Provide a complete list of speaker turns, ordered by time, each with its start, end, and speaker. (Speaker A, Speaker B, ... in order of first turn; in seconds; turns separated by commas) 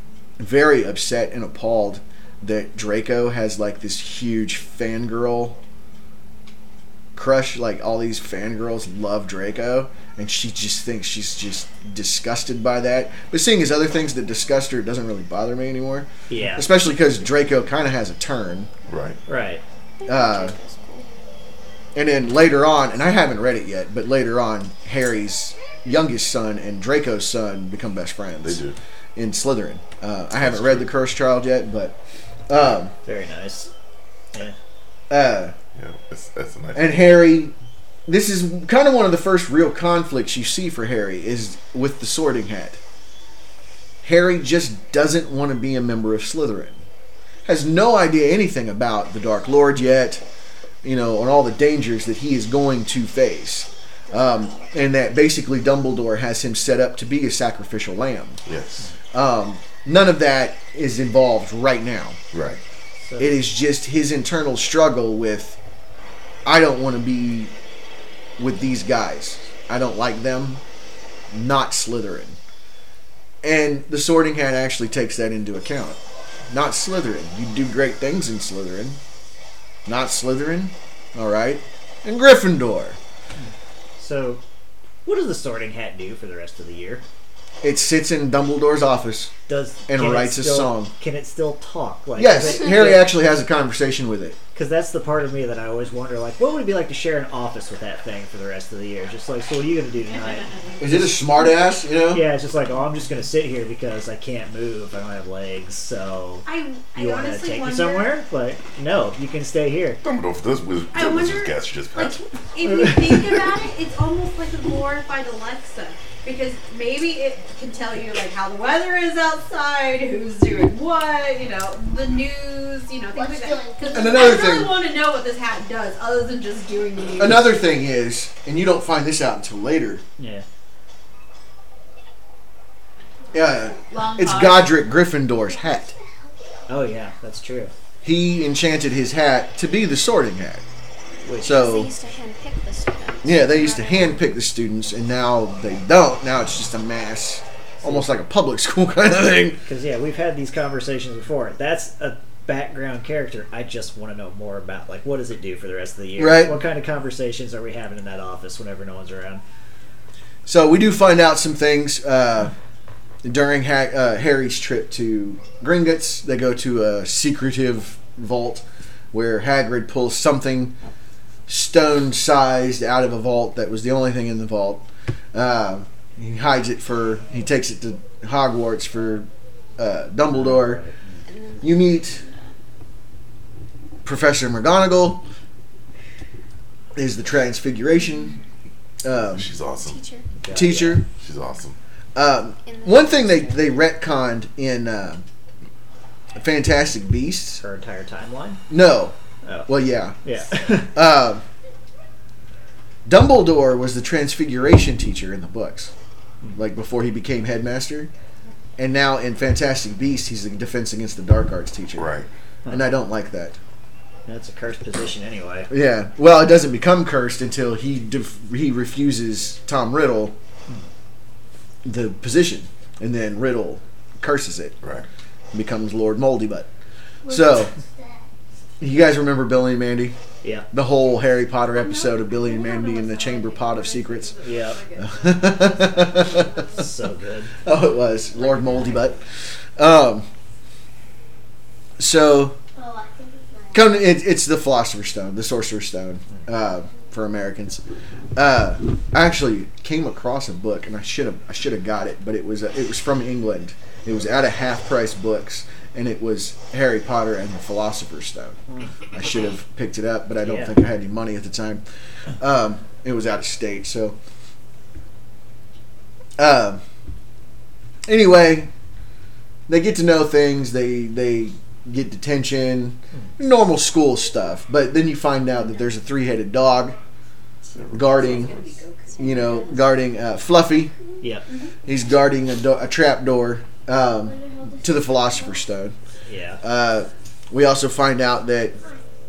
Speaker A: 0.4-5.6, Speaker A: 7.1-18.7, Speaker B: 16.3-16.7, Speaker C: 18.9-19.2, Speaker B: 19.2-19.6, Speaker D: 20.0-21.1, Speaker A: 20.1-20.5, Speaker A: 21.9-28.6, Speaker C: 28.4-28.8, Speaker A: 29.1-32.0, Speaker C: 30.4-30.9, Speaker A: 32.5-32.9, Speaker B: 33.0-33.7, Speaker A: 35.1-35.5, Speaker C: 35.7-37.2, Speaker A: 36.7-37.5, Speaker A: 38.1-42.8, Speaker A: 44.0-46.8, Speaker A: 47.4-50.2, Speaker A: 50.8-58.4, Speaker C: 58.5-58.8, Speaker A: 59.1-62.2, Speaker C: 62.3-62.6, Speaker B: 63.0-63.5, Speaker A: 63.2-65.6, Speaker A: 66.4-67.5, Speaker A: 68.4-70.6, Speaker A: 71.3-72.4, Speaker A: 73.4-76.0, Speaker A: 76.5-79.0, Speaker A: 79.8-83.0, Speaker B: 83.3-84.4, Speaker B: 85.0-87.0, Speaker A: 87.6-89.3, Speaker B: 89.5-93.1, Speaker A: 89.9-90.9, Speaker A: 92.2-94.4, Speaker B: 94.5-100.5, Speaker E: 100.1-101.5, Speaker A: 100.8-102.2, Speaker B: 102.1-110.0, Speaker E: 106.5-108.1, Speaker C: 110.0-112.2, Speaker E: 110.9-127.5, Speaker B: 112.7-113.1, Speaker F: 123.1-124.5, Speaker A: 123.9-124.7, Speaker A: 127.2-130.0, Speaker B: 130.2-130.4, Speaker A: 133.3-135.9, Speaker E: 133.8-134.8, Speaker F: 135.2-136.9, Speaker B: 136.7-137.7, Speaker A: 138.0-140.6, Speaker B: 141.2-141.7, Speaker D: 141.4-144.2, Speaker A: 141.4-141.9, Speaker A: 143.2-149.6, Speaker B: 147.8-148.1, Speaker B: 149.6-159.4, Speaker A: 156.2-156.6, Speaker A: 160.4-162.5, Speaker A: 163.2-170.7, Speaker A: 171.5-180.8, Speaker B: 180.3-181.2, Speaker D: 181.3-182.3, Speaker A: 181.6-182.2, Speaker A: 184.0-185.2, Speaker A: 186.9-188.4, Speaker A: 189.0-189.5, Speaker C: 189.1-190.0, Speaker D: 189.7-190.3, Speaker B: 190.4-191.0, Speaker A: 190.5-191.0, Speaker C: 191.1-191.8, Speaker A: 192.1-195.2, Speaker D: 192.7-193.3, Speaker A: 196.3-197.6, Speaker B: 197.6-198.6, Speaker A: 198.7-199.1, Speaker B: 199.4-200.9, Speaker A: 199.7-200.2, Speaker A: 200.9-201.4, Speaker A: 203.1-205.9, Speaker A: 206.5-208.1, Speaker A: 208.8-212.1, Speaker C: 212.0-212.3, Speaker B: 212.6-212.9, Speaker A: 212.7-213.6, Speaker B: 214.2-215.7, Speaker A: 215.7-220.3, Speaker A: 221.8-224.8, Speaker A: 225.5-226.7, Speaker F: 227.2-228.3, Speaker A: 227.3-227.7, Speaker A: 228.8-230.2, Speaker B: 230.4-230.7, Speaker A: 230.7-234.4, Speaker E: 231.7-236.8, Speaker B: 234.4-234.8, Speaker A: 235.0-236.8, Speaker B: 236.7-237.5, Speaker A: 237.6-239.2, Speaker E: 238.4-239.1, Speaker A: 239.8-240.2, Speaker A: 242.0-242.6, Speaker F: 242.7-244.0, Speaker A: 243.7-247.8, Speaker A: 248.3-258.6, Speaker A: 259.1-261.8, Speaker B: 260.4-260.8, Speaker A: 262.4-264.1, Speaker A: 266.4-266.8, Speaker A: 268.1-268.7, Speaker A: 269.7-276.9, Speaker C: 277.7-278.5, Speaker A: 277.9-278.6, Speaker E: 278.0-279.8, Speaker A: 279.2-280.9, Speaker A: 281.9-285.9, Speaker F: 284.2-285.7, Speaker B: 286.3-286.6, Speaker A: 286.6-288.8